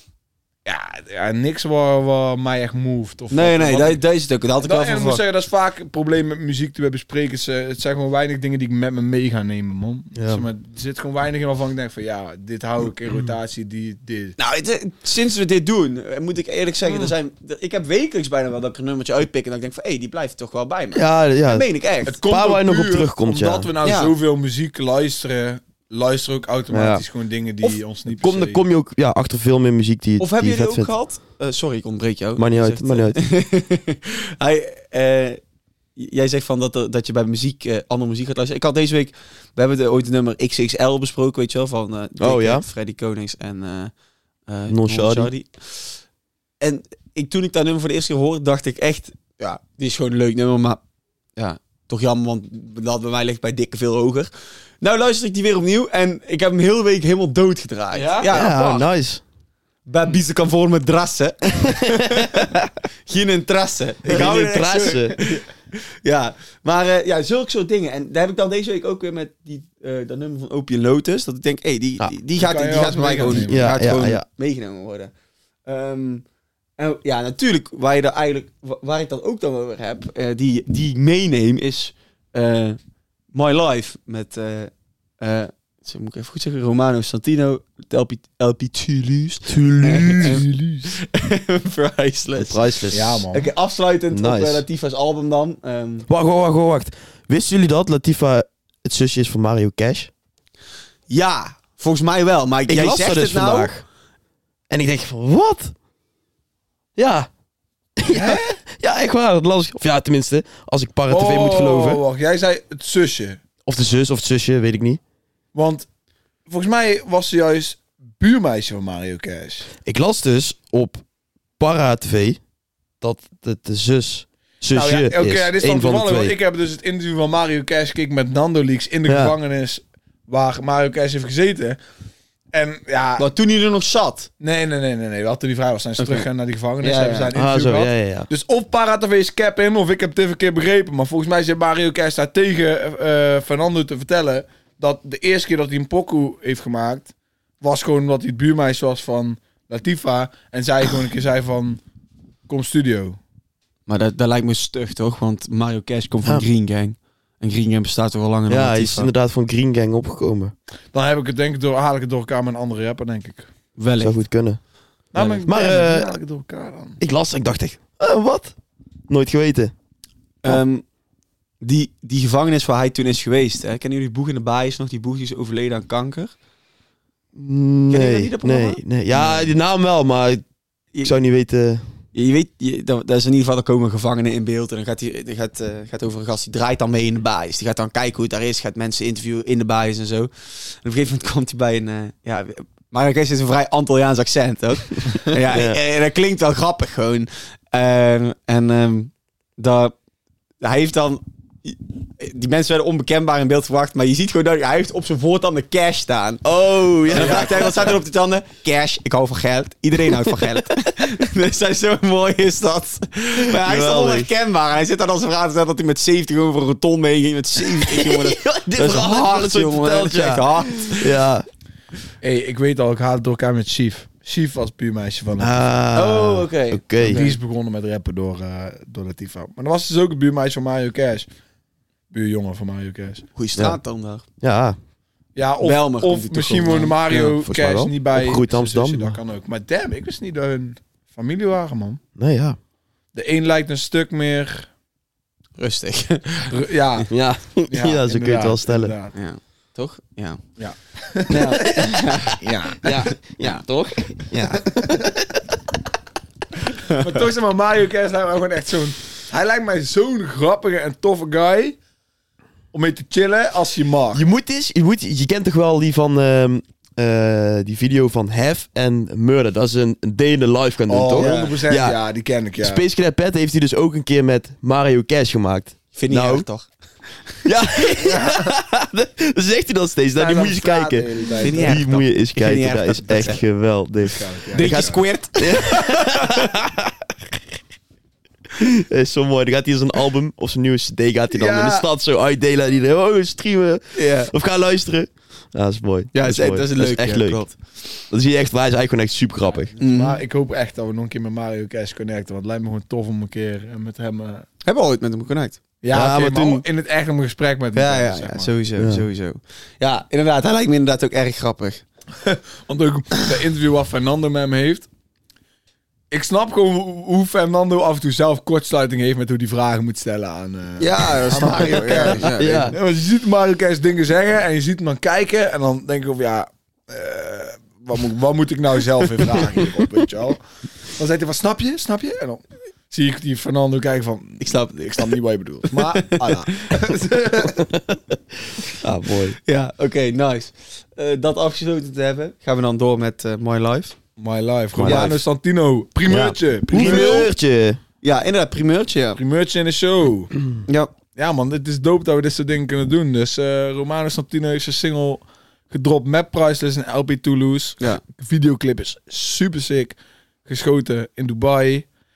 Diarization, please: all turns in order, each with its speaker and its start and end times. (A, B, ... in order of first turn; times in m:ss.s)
0:00.7-0:04.0 A
0:03.3-0:05.2 B
0:04.6-0:14.4 A
0:10.2-0:10.4 C
0:14.4-0:22.2 B
0:20.9-0:21.7 C
0:22.1-0:28.6 A
0:22.2-0:23.7 C
0:23.8-0:24.1 B
0:26.7-0:27.0 C
0:28.2-0:30.9 C
0:30.2-0:35.4 B
0:32.4-0:33.2 C
0:36.0-0:43.9 B
0:42.2-0:42.6 C
0:44.5-0:45.9 B
0:44.7-0:45.3 C
0:46.6-0:50.8 B
0:51.4-0:58.8 B
0:57.9-0:58.4 A
0:58.3-0:59.2 C
0:59.9-1:02.5 B
1:01.7-1:02.5 C
1:03.1-1:15.1 B
1:04.1-1:05.2 C
1:12.4-1:13.7 A
1:13.5-1:14.2 C
1:15.6-1:16.2 B
1:16.8-1:22.8 B
1:23.3-1:32.6 B
1:29.5-1:30.4 C
1:30.2-1:30.9 A
1:32.4-1:33.2 C
1:32.9-1:33.5 A
1:33.3-1:36.1 B
1:34.1-1:34.6 C
1:36.1-1:40.1 C
1:41.1-1:43.7 B
1:42.7-1:43.8 C
1:44.7-1:45.7 C
1:47.0-1:47.3 C
1:48.0-1:52.0 C
1:48.1-1:48.6 A
1:51.1-1:53.4 A
1:53.6-1:55.0 C
1:55.5-1:55.9 A
1:56.5-1:59.7 A
1:59.8-2:01.0 C
2:01.6-2:02.4 C
2:03.0-2:06.4 C
2:04.7-2:11.8 A
2:09.1-2:09.3 C
2:12.5-2:13.3 A
2:13.2-2:14.3 B
2:14.4-2:31.8 A
2:16.0-2:16.3 B
2:16.8-2:17.3 B
2:17.3-2:18.3 C
2:32.5-2:33.2 A
2:33.9-2:39.1 B
2:38.5-2:40.5 C
2:40.9-2:43.5 A
2:43.8-2:44.2 B
2:44.0-2:44.6 C
2:45.1-2:47.0 A
2:45.4-2:46.1 C
2:47.0-2:48.5 C
2:49.1-2:49.7 C
2:50.4-2:50.8 B
2:51.6-2:56.3 B
2:57.4-3:00.4 C
2:57.9-2:59.5 B
3:01.0-3:01.8 C
3:02.1-3:20.0 B
3:15.5-3:15.8 C
3:20.6-3:26.4 B
3:26.4-3:27.9 C
3:27.1-3:41.1 B
3:27.2-3:27.9 A
3:30.1-3:30.6 C
3:33.4-3:34.3 C
3:37.7-3:41.5 C
3:42.2-3:45.6 A
3:45.4-3:47.2 C
3:46.0-3:47.4 B
3:47.0-3:51.3 A
3:52.1-3:53.3 A
3:53.4-3:54.2 B
3:54.4-3:54.8 C
3:55.4-4:02.0 A
3:55.6-3:57.0 B
3:57.1-3:59.2 C
4:02.2-4:02.6 C
4:03.1-4:04.7 A
4:05.6-4:06.6 B
4:06.5-4:07.1 A
4:07.1-4:08.9 C
4:07.7-4:09.2 A
4:09.2-4:10.4 B
4:10.6-4:11.8 A
4:11.3-4:12.4 B
4:12.3-4:13.0 A
4:12.8-4:15.3 C
4:13.4-4:13.9 B
4:16.9-4:21.8 A
4:22.7-4:24.2 A
4:24.1-4:32.0 C
4:30.9-4:32.8 A
4:31.2-4:31.6 B
4:32.6-4:36.5 C
4:36.0-4:36.7 B
4:37.4-4:47.1 C
4:38.1-4:38.5 A
4:40.2-4:41.8 A
4:41.4-4:43.4 B
4:44.0-4:45.0 A
4:44.5-4:46.5 B
4:48.6-4:59.7 C
4:51.3-4:51.8 A
4:54.0-4:54.3 B
4:56.1-4:57.5 B
4:59.7-5:04.5 A
4:59.8-5:00.2 B
5:04.6-5:05.6 B
5:05.8-5:08.5 A
5:05.9-5:06.6 C
5:07.8-5:11.8 B
5:08.8-5:09.0 C
5:12.2-5:14.9 A
5:16.1-5:30.4 A
5:20.8-5:22.7 B
5:21.9-5:22.8 C
5:30.9-5:37.6 A
5:34.4-5:35.1 B
5:35.7-5:36.7 B
5:38.8-5:39.4 C
5:39.5-5:44.0 B
5:44.2-5:47.3 A
5:44.7-5:45.2 C
5:44.9-5:45.2 B
5:46.1-5:47.8 C
5:46.7-5:47.3 B
5:48.0-5:49.2 B
5:49.2-5:50.3 A
5:50.7-5:50.9 B
5:51.2-6:01.9 A